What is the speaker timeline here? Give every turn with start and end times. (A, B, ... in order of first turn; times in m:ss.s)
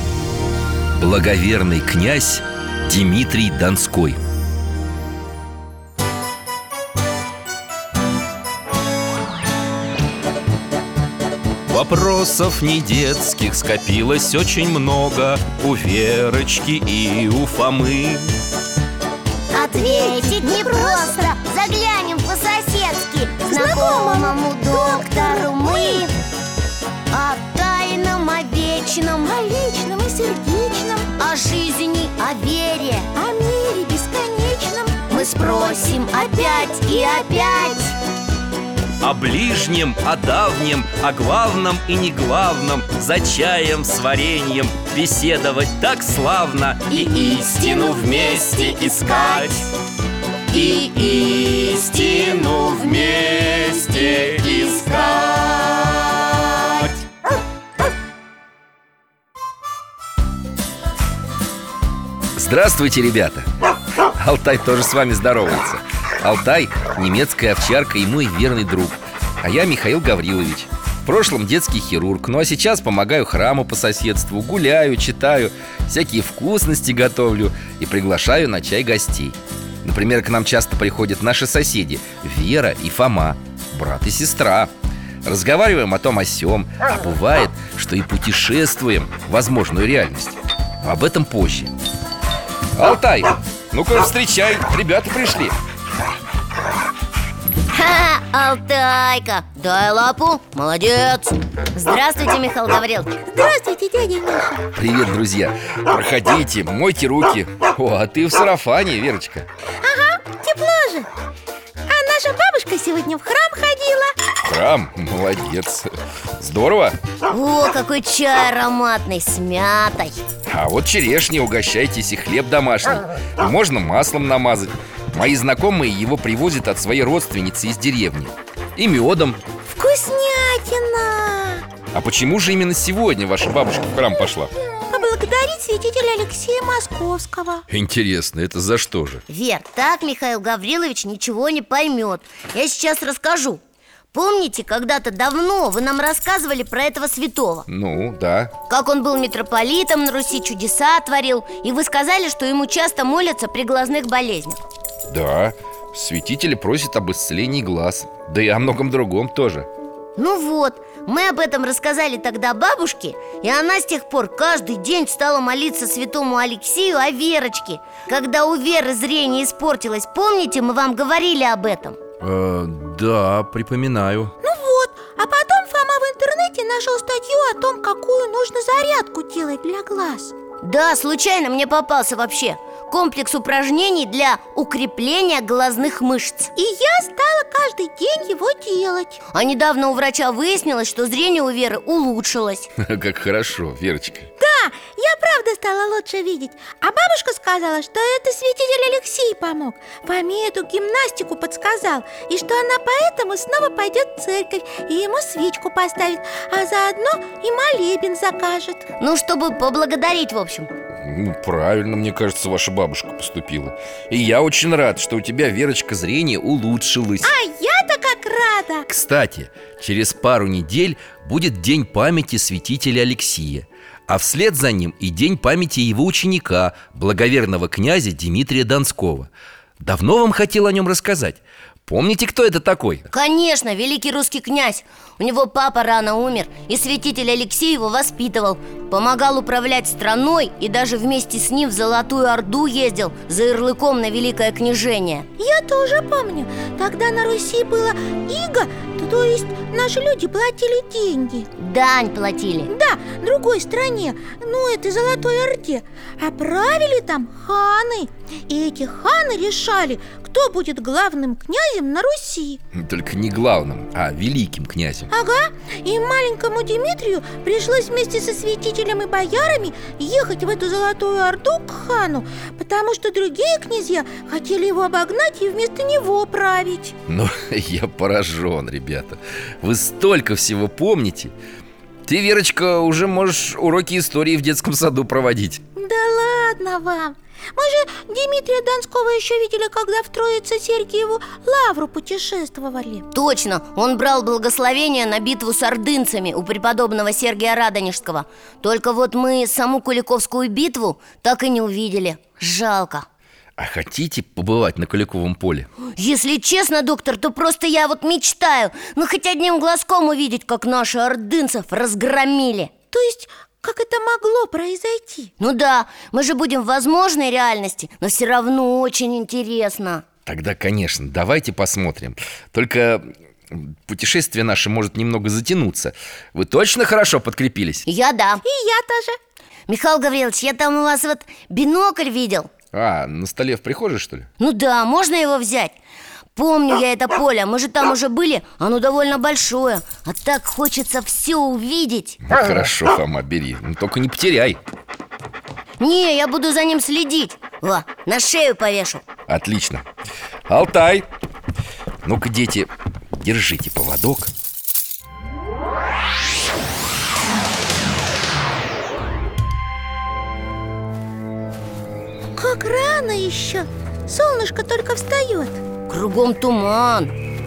0:01.0-0:04.2 A
0:11.7-0:18.4 A
0:19.5-0:21.3 B
0:19.5-0:26.2 C
0:23.5-0:26.0 B
0:27.1-0:29.3 C
0:29.2-0:31.1 B
0:31.2-0:33.1 C
0:33.1-0:37.8 B
0:35.1-0:37.9 C
0:39.0-0:49.7 A
0:46.9-0:49.5 C
0:50.5-0:54.9 A
0:50.5-0:56.9 C
1:02.4-1:03.5 A
1:04.1-1:24.7 A
1:25.2-1:31.7 A
1:32.8-1:35.6 A
1:37.7-1:43.2 C
1:43.3-1:44.6 B
1:44.8-1:49.5 A
1:49.8-1:51.1 B
1:51.9-1:54.1 B
1:54.4-1:57.0 A
1:57.3-2:00.2 C
2:00.4-2:09.4 A
2:09.7-2:11.6 B
2:11.9-2:14.5 A
2:14.9-2:17.6 B
2:17.7-2:19.2 A
2:19.3-2:23.6 C
2:24.1-2:27.6 C
2:27.7-2:28.5 A
2:28.7-2:34.6 C
2:35.1-2:39.7 A
2:40.2-2:52.0 C
2:52.2-2:54.3 A
2:54.4-3:00.3 B
3:00.6-3:06.5 C
3:06.6-3:09.2 B
3:09.3-3:12.7 C
3:12.8-3:14.3 A
3:14.4-3:28.8 B
3:29.0-3:30.7 C
3:31.0-3:37.3 A
3:37.2-3:38.9 B
3:38.9-3:53.1 A
3:53.1-4:05.3 C
4:05.4-4:11.5 B
4:11.6-4:12.7 C
4:12.7-4:22.6 B
4:22.7-4:25.1 A
4:25.1-4:36.9 B
4:37.1-4:41.3 A
4:42.0-4:45.6 A
4:45.8-4:53.0 B
4:53.1-5:03.0 C
5:03.6-5:05.7 A
5:05.9-5:12.7 C
5:12.9-5:15.3 B
5:15.4-5:20.0 C
5:20.2-5:27.8 A
5:27.8-5:28.4 C
5:28.4-5:29.2 B
5:29.7-5:32.5 C
5:32.7-5:34.3 A
5:34.4-5:35.7 C
5:36.4-5:42.2 C
5:42.2-5:44.6 A
5:45.8-5:49.0 C
5:49.3-5:49.8 A
5:50.5-5:51.1 A
5:52.0-5:54.3 A
6:02.3-6:05.6 B
6:05.9-6:07.1 C